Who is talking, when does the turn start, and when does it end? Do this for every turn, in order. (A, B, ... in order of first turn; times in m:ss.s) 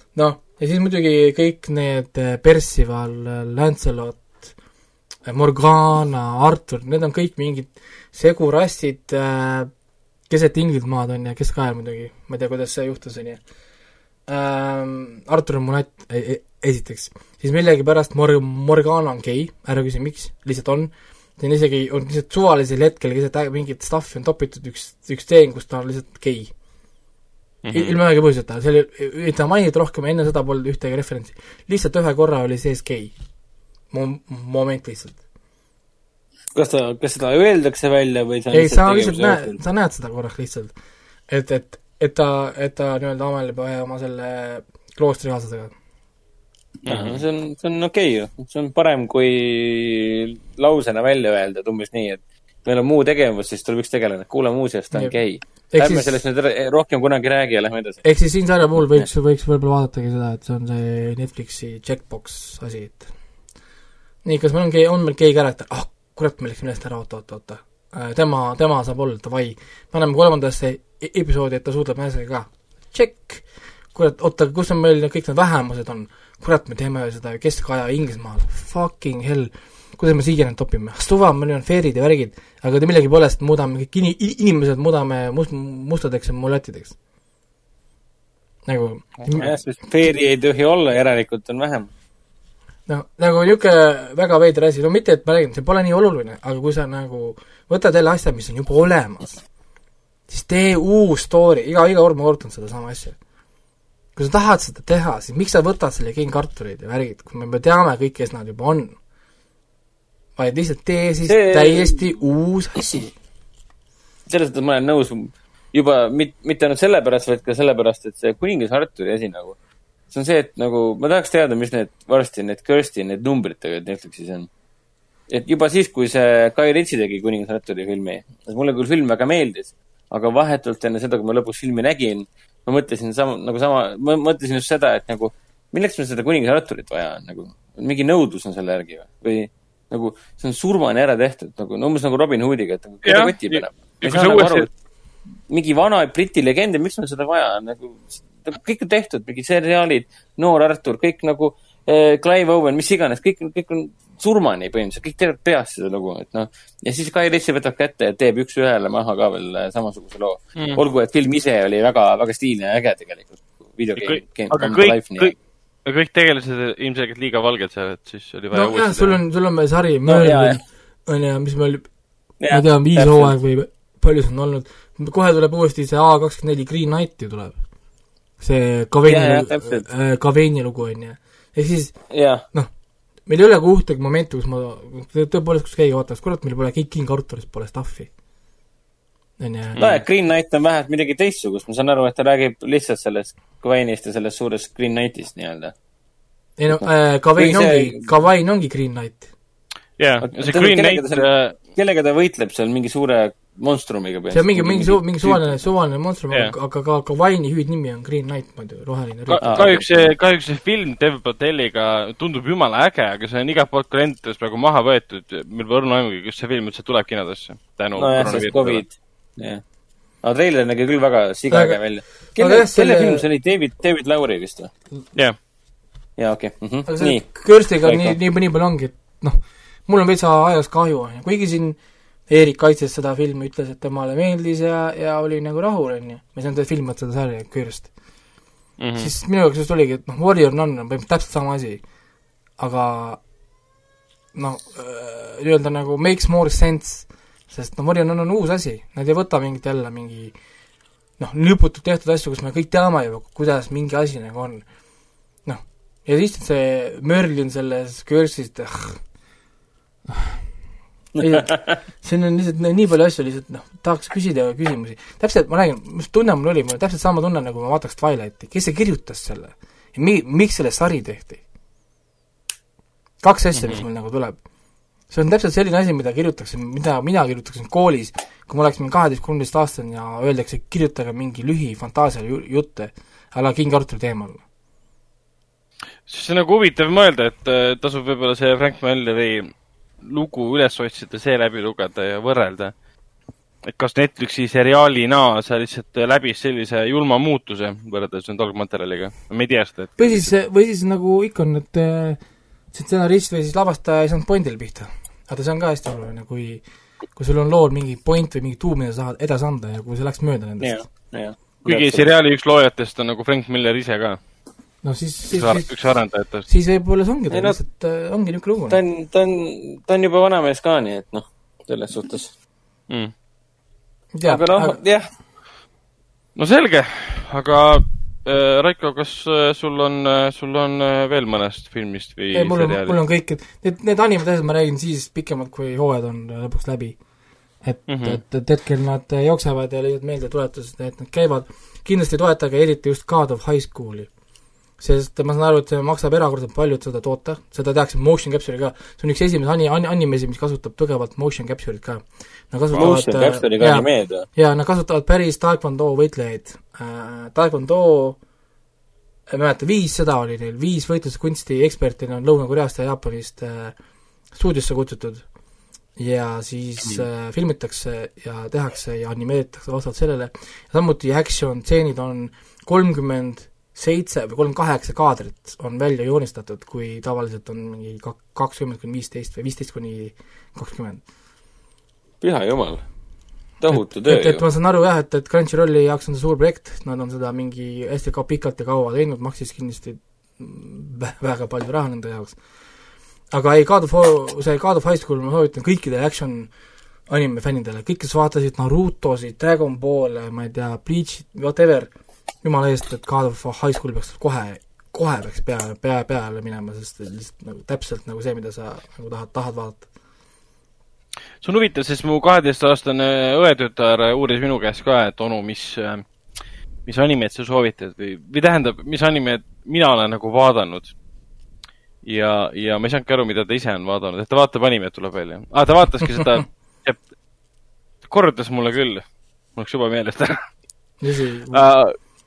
0:00.2-0:04.5 A
0:05.3-0:09.7 A
0:10.3-0:13.4 A
0:14.3-0:26.5 A
0:27.6-0:28.0 B
0:27.7-0:33.1 A
0:33.9-0:35.2 A
0:36.6-0:39.6 C
0:38.5-0:40.7 A
0:41.3-0:45.7 A
0:46.8-0:47.2 B
0:46.9-0:58.0 C
0:55.7-0:56.2 A
0:58.0-1:03.1 A
0:58.8-0:59.1 C
1:04.2-1:27.0 A
1:28.7-1:29.5 A
1:29.2-1:29.5 B
1:29.4-1:31.9 C
1:32.9-1:39.4 A
1:40.3-1:43.2 A
1:44.2-1:49.0 A
1:50.4-1:53.1 A
1:51.3-1:52.1 C
1:54.3-1:59.6 C
2:00.1-2:04.5 C
2:05.3-2:24.7 C
2:23.0-2:24.7 B
2:25.5-2:45.3 C
2:40.6-2:40.8 B
2:44.0-2:49.2 B
2:48.5-2:51.9 A
2:50.1-2:50.6 C
2:52.4-2:53.3 C
2:52.5-2:57.6 A
2:58.4-3:02.0 A
2:59.0-2:59.9 C
3:02.1-3:02.4 C
3:03.3-3:08.1 A
3:09.4-3:09.8 A
3:09.8-3:15.7 C
3:16.6-3:19.3 A
3:16.7-3:18.1 C
3:20.0-3:21.6 B
3:20.2-3:25.5 C
3:24.3-3:29.8 A
3:29.3-3:38.8 B
3:29.4-3:30.1 C
3:38.0-3:39.6 C
3:40.2-3:44.7 C
3:41.5-3:43.3 A
3:46.2-3:48.2 C
3:46.9-3:57.9 A
3:58.8-3:59.1 B
3:59.0-4:01.8 A
4:02.6-4:03.2 A
4:04.3-4:10.3 A
4:11.2-4:14.6 A
4:15.4-4:19.0 A
4:21.2-4:21.6 C
4:21.2-4:31.4 A
4:33.2-4:34.4 A
4:35.1-4:44.4 A
4:46.1-4:52.7 B
4:53.7-5:00.3 B
5:00.0-5:06.6 A
5:07.2-5:10.8 A
5:10.6-5:12.1 C
5:11.6-5:14.2 B
5:14.8-5:15.7 A
5:15.3-5:16.5 B
5:16.5-5:18.8 A
5:17.3-5:17.6 C
5:18.7-5:22.3 C
5:24.1-5:24.8 A
5:24.3-5:25.1 C
5:26.4-5:33.0 B
5:32.3-5:37.0 A
5:37.6-5:44.1 A
5:37.9-5:38.2 B
5:44.8-5:58.2 A
5:52.7-5:54.3 C
5:59.3-6:03.8 A
6:04.3-6:05.3 A
6:06.0-6:21.0 A
6:22.2-6:22.8 C
6:23.6-6:24.4 C
6:23.7-6:32.4 A
6:33.3-6:36.5 A
6:37.1-6:41.9 A
6:42.4-6:49.9 A
6:51.4-6:56.0 B
6:56.9-7:00.9 B
7:02.0-7:07.0 B
7:08.0-7:09.0 B
7:09.6-7:10.4 B
7:11.0-7:11.7 A
7:11.5-7:12.0 B